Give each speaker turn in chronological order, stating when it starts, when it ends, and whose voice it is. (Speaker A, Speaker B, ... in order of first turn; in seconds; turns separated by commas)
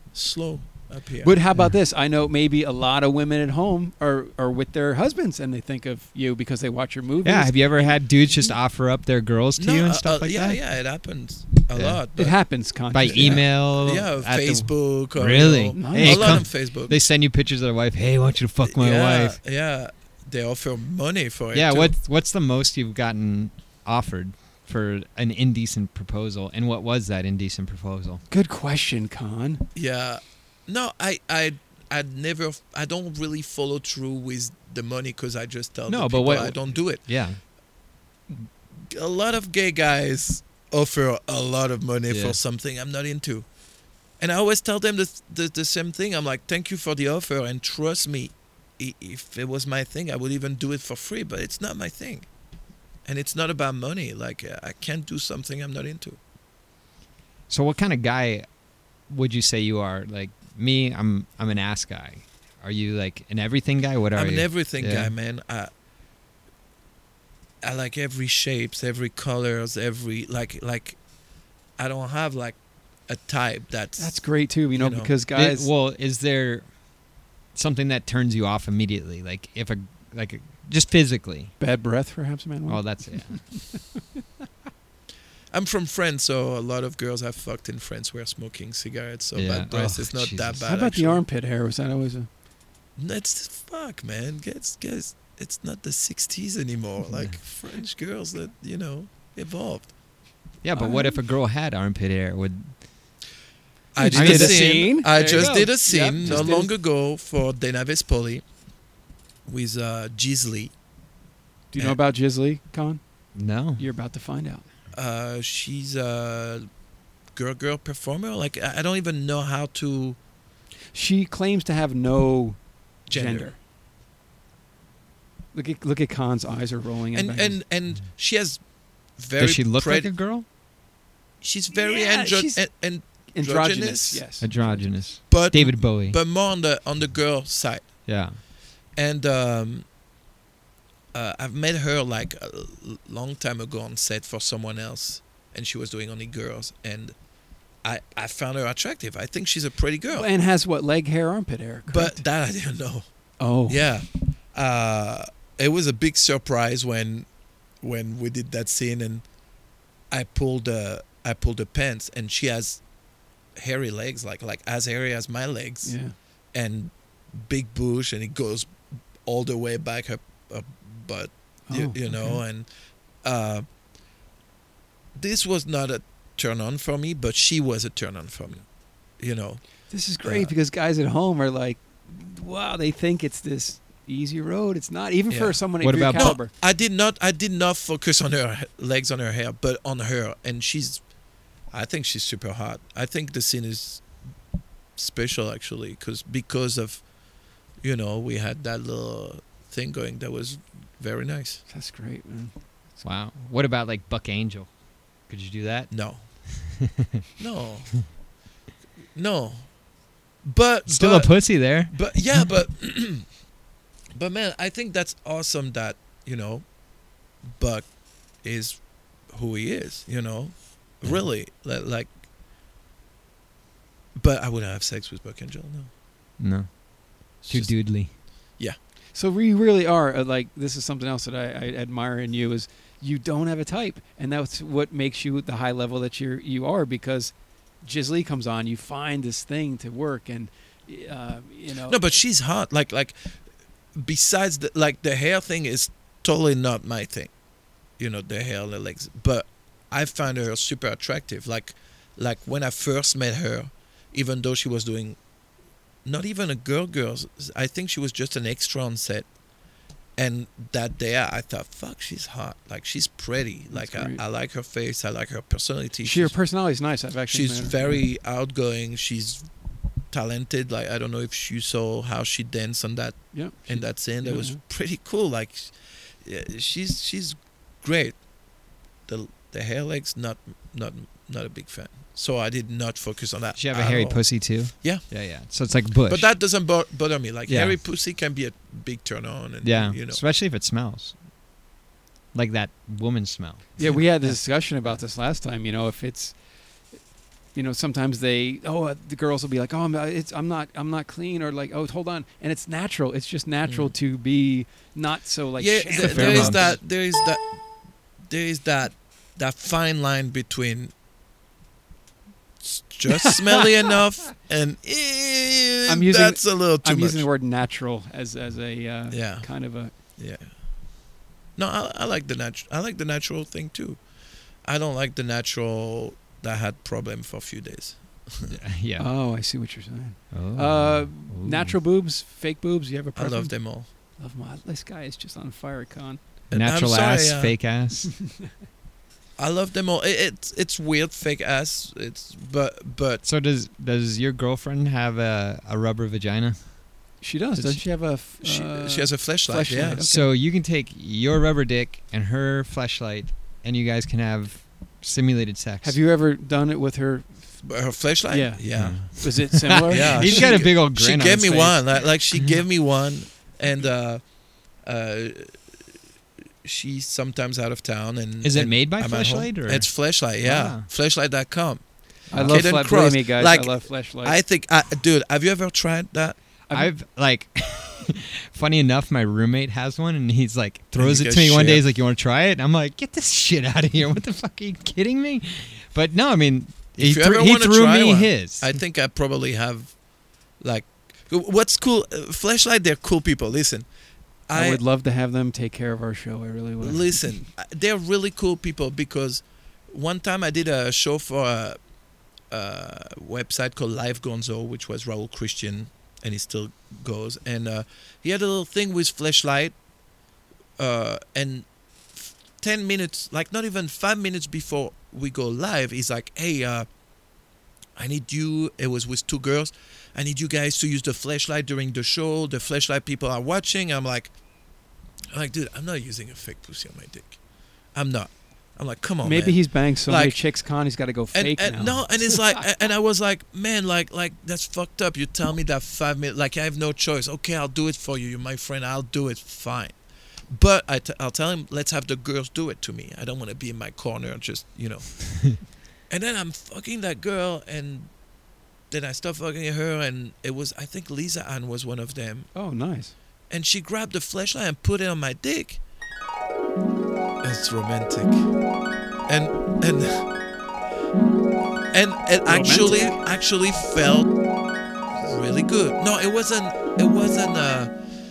Speaker A: 0.1-1.4, Speaker B: 1.2-8.0, Speaker C: 7.2-10.6, Speaker A: 9.6-12.4, Speaker C: 11.7-12.0, Speaker B: 12.2-13.4, Speaker C: 12.9-19.4, Speaker A: 13.1-17.0, Speaker B: 15.8-16.5, Speaker A: 18.7-22.0, Speaker C: 21.5-28.2, Speaker B: 28.3-29.6, Speaker A: 29.8-37.0, Speaker C: 35.9-37.4, Speaker A: 38.3-43.5, Speaker C: 42.1-42.4, Speaker A: 44.2-52.3, Speaker A: 53.1-56.2, Speaker C: 57.5-58.5, Speaker C: 59.1-65.1, Speaker A: 64.1-65.7, Speaker A: 67.6-71.0, Speaker A: 71.8-72.6, Speaker A: 73.1-75.1, Speaker B: 74.0-75.7, Speaker C: 75.3-76.7, Speaker C: 77.5-81.5, Speaker B: 81.6-83.8, Speaker C: 82.7-83.5, Speaker A: 85.5-91.2, Speaker C: 89.3-90.7, Speaker B: 90.7-92.3, Speaker A: 93.0-99.9, Speaker C: 100.6-102.8, Speaker B: 100.8-101.2, Speaker A: 104.0-108.4, Speaker B: 104.0-106.7, Speaker C: 104.1-105.7, Speaker C: 106.2-106.5, Speaker A: 109.5-110.7, Speaker B: 111.7-113.0, Speaker C: 113.3-113.8, Speaker B: 113.8-114.7, Speaker A: 114.9-116.7, Speaker A: 117.3-120.2, Speaker B: 120.9-123.6, Speaker A: 123.1-123.5, Speaker B: 125.5-127.6, Speaker A: 127.1-128.6, Speaker A: 129.2-130.1, Speaker C: 129.4-130.5, Speaker A: 131.4-134.2, Speaker B: 131.7-132.7, Speaker B: 133.2-134.9, Speaker C: 134.4-136.2, Speaker A: 135.3-138.1, Speaker C: 138.1-138.4, Speaker A: 138.9-139.8, Speaker A: 141.1-147.2, Speaker A: 147.8-150.3, Speaker B: 150.1-152.2, Speaker A: 151.9-153.1, Speaker B: 153.4-153.9, Speaker A: 153.6-157.3, Speaker A: 157.8-159.2, Speaker A: 160.1-162.8, Speaker A: 163.6-172.7, Speaker B: 165.8-166.2, Speaker B: 171.7-172.4, Speaker A: 173.2-173.7, Speaker A: 175.2-178.7, Speaker A: 179.2-180.5, Speaker B: 179.9-186.5, Speaker A: 185.3-185.6, Speaker C: 185.8-186.4, Speaker A: 186.1-191.0, Speaker A: 191.7-194.1, Speaker A: 195.0-197.1, Speaker A: 197.8-201.6, Speaker B: 201.7-203.0, Speaker C: 203.0-204.7, Speaker C: 205.2-207.2, Speaker A: 205.9-206.3, Speaker A: 207.4-208.2, Speaker A: 209.2-209.8, Speaker A: 210.4-213.3, Speaker C: 210.9-212.4, Speaker A: 214.2-216.7, Speaker A: 217.4-222.1, Speaker A: 224.2-225.9, Speaker C: 226.4-226.8, Speaker C: 227.4-228.1, Speaker A: 227.4-228.8, Speaker B: 229.1-242.0, Speaker A: 241.9-243.4, Speaker A: 243.9-247.3, Speaker A: 248.0-255.2, Speaker A: 256.1-259.3, Speaker A: 260.2-266.4, Speaker B: 263.7-264.2, Speaker B: 266.0-268.0, Speaker A: 267.3-269.5, Speaker A: 270.1-278.2, Speaker B: 273.3-274.6, Speaker A: 279.1-285.3, Speaker C: 283.6-286.3, Speaker A: 286.1-290.2, Speaker C: 287.5-287.8, Speaker C: 289.6-291.2, Speaker C: 292.3-295.0, Speaker B: 293.8-296.4, Speaker B: 297.5-306.8, Speaker A: 305.6-307.6, Speaker C: 306.0-306.8, Speaker A: 308.3-310.9, Speaker A: 312.6-317.3, Speaker B: 315.9-319.9, Speaker A: 319.1-319.6, Speaker A: 320.2-320.5, Speaker A: 321.6-324.0, Speaker A: 324.6-328.5, Speaker C: 328.5-329.1, Speaker B: 329.0-336.2, Speaker C: 330.3-331.8, Speaker A: 333.2-333.9, Speaker A: 336.5-337.6, Speaker C: 336.5-338.1, Speaker A: 339.4-343.2, Speaker C: 343.2-347.0, Speaker B: 347.2-350.3, Speaker C: 347.6-347.8, Speaker A: 348.4-350.0, Speaker C: 350.0-356.0, Speaker B: 355.8-360.6, Speaker A: 357.6-365.6, Speaker C: 358.7-361.9, Speaker A: 366.6-376.4, Speaker C: 368.4-369.9, Speaker C: 370.4-370.9, Speaker B: 372.3-374.4, Speaker C: 372.3-372.7, Speaker C: 376.7-388.8, Speaker A: 381.0-381.8, Speaker A: 387.0-390.0, Speaker A: 390.6-393.9, Speaker A: 394.5-394.8, Speaker B: 394.5-397.5, Speaker A: 396.8-401.8, Speaker A: 402.5-409.8, Speaker A: 410.8-416.9, Speaker A: 418.0-424.4, Speaker A: 425.3-427.4, Speaker A: 427.9-430.5, Speaker B: 429.2-432.6, Speaker A: 431.3-448.1, Speaker A: 448.9-452.5, Speaker B: 452.5-453.1, Speaker A: 453.5-455.8, Speaker A: 457.4-458.5, Speaker A: 459.3-460.3, Speaker A: 461.9-464.4, Speaker B: 462.5-463.2, Speaker A: 465.2-467.9